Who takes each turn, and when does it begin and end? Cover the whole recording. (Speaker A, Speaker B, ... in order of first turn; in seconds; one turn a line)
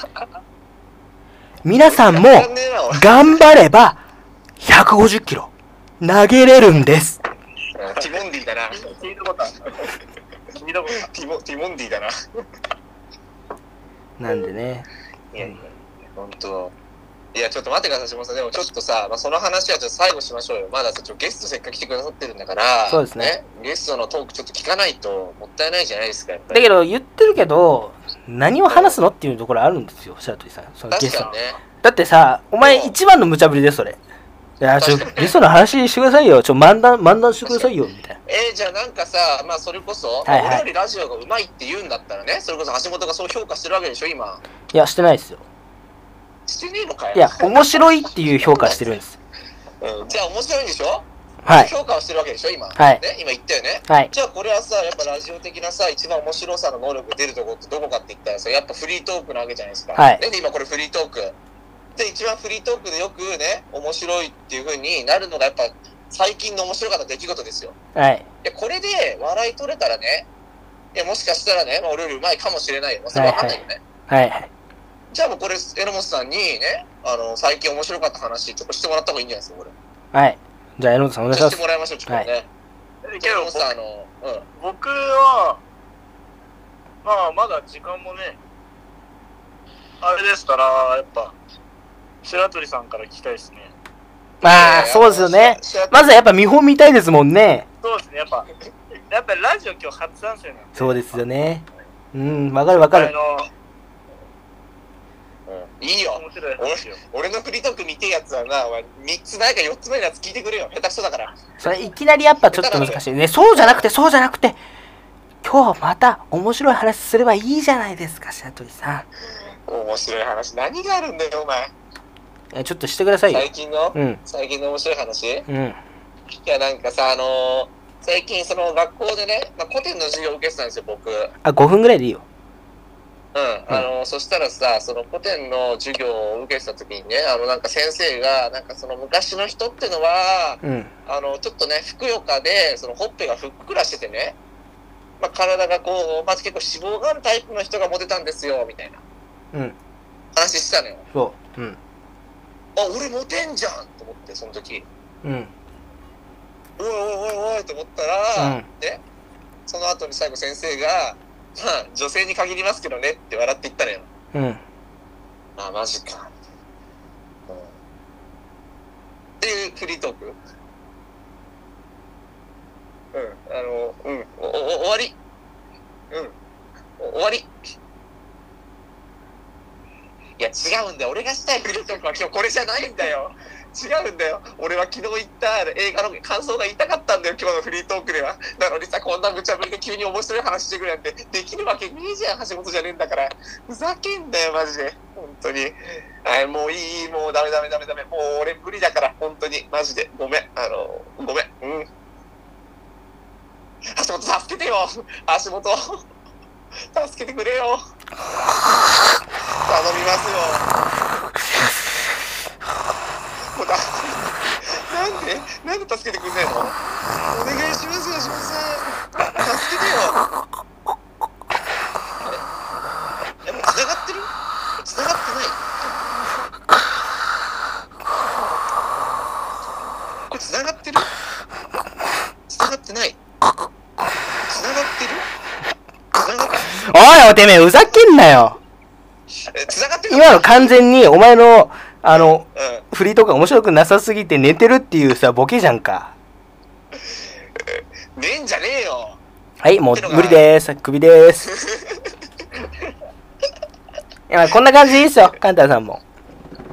Speaker A: 1.6-4.0
Speaker B: 1.9-3.4
Speaker A: 4.6-7.2
Speaker B: 7.8-8.9
Speaker C: 8.8-9.7
Speaker C: 10.6-11.1
Speaker B: 11.0-12.1
Speaker A: 14.2-14.9
Speaker B: 15.3-16.7
Speaker B: 17.3-26.7
Speaker A: 22.9-23.4
Speaker A: 26.5-34.0
Speaker B: 28.7-29.0
Speaker B: 30.9-31.6
Speaker B: 32.6-33.0
Speaker A: 34.6-38.2
Speaker B: 34.8-35.4
Speaker B: 37.5-37.7
Speaker B: 38.3-44.4
Speaker A: 40.3-40.7
Speaker A: 44.7-45.4
Speaker B: 46.5-47.8
Speaker A: 47.1-49.2
Speaker B: 48.4-48.9
Speaker B: 49.8-61.4
Speaker A: 51.5-51.7
Speaker A: 52.8-53.0
Speaker A: 60.0-60.2
Speaker B: 62.0-67.8
Speaker A: 68.0-68.3
Speaker B: 68.4-70.3
Speaker B: 70.9-73.8
Speaker A: 73.1-74.5
Speaker B: 75.1-79.7
Speaker A: 80.1-82.3
Speaker B: 81.3-82.5
Speaker C: 83.1-83.7
Speaker B: 83.2-84.5
Speaker C: 84.6-85.6
Speaker C: 87.0-88.4
Speaker C: 90.0-91.3
Speaker C: 92.2-93.7
Speaker A: 94.4-97.7
Speaker B: 94.5-96.2
Speaker C: 97.8-98.5
Speaker C: 99.1-101.2
Speaker A: 100.8-103.1
Speaker C: 102.8-103.5
Speaker B: 105.5-111.4
Speaker C: 106.1-107.0
Speaker A: 111.6-114.6
Speaker B: 112.4-113.0
Speaker B: 113.5-113.9
Speaker A: 115.4-119.1
Speaker B: 119.7-121.7
Speaker A: 122.5-124.2
Speaker B: 123.3-125.5
Speaker A: 125.5-125.8
Speaker B: 126.3-131.3
Speaker A: 131.4-132.2
Speaker B: 133.3-144.4
Speaker A: 140.6-140.9
Speaker B: 145.2-149.0
Speaker B: 150.3-151.0
Speaker A: 151.1-151.8
Speaker B: 152.8-154.9
Speaker A: 155.2-155.5
Speaker B: 156.8-159.0
Speaker A: 158.4-158.7
Speaker B: 159.7-164.1
Speaker A: 164.3-164.6
Speaker B: 165.6-166.3
Speaker B: 167.5-167.7
Speaker B: 169.4-170.4
Speaker B: 173.1-175.2
Speaker B: 176.1-176.3
Speaker B: 177.0-177.5
Speaker B: 180.4-201.9
Speaker B: 203.9-206.1
Speaker B: 206.9-207.8
Speaker B: 209.6-210.7
Speaker B: 213.5-216.8
Speaker B: 217.3-220.2
Speaker B: 222.2-222.5
Speaker B: 223.4-225.7
Speaker B: 230.3-231.1
Speaker B: 232.5-233.2
Speaker B: 234.4-235.3
Speaker B: 236.1-236.8
Speaker A: 236.7-238.6
Speaker B: 239.5-240.8
Speaker A: 240.1-246.1
Speaker B: 242.1-242.8
Speaker B: 247.0-249.2
Speaker A: 249.6-251.6
Speaker B: 249.9-250.4
Speaker B: 251.5-252.1
Speaker A: 254.3-256.0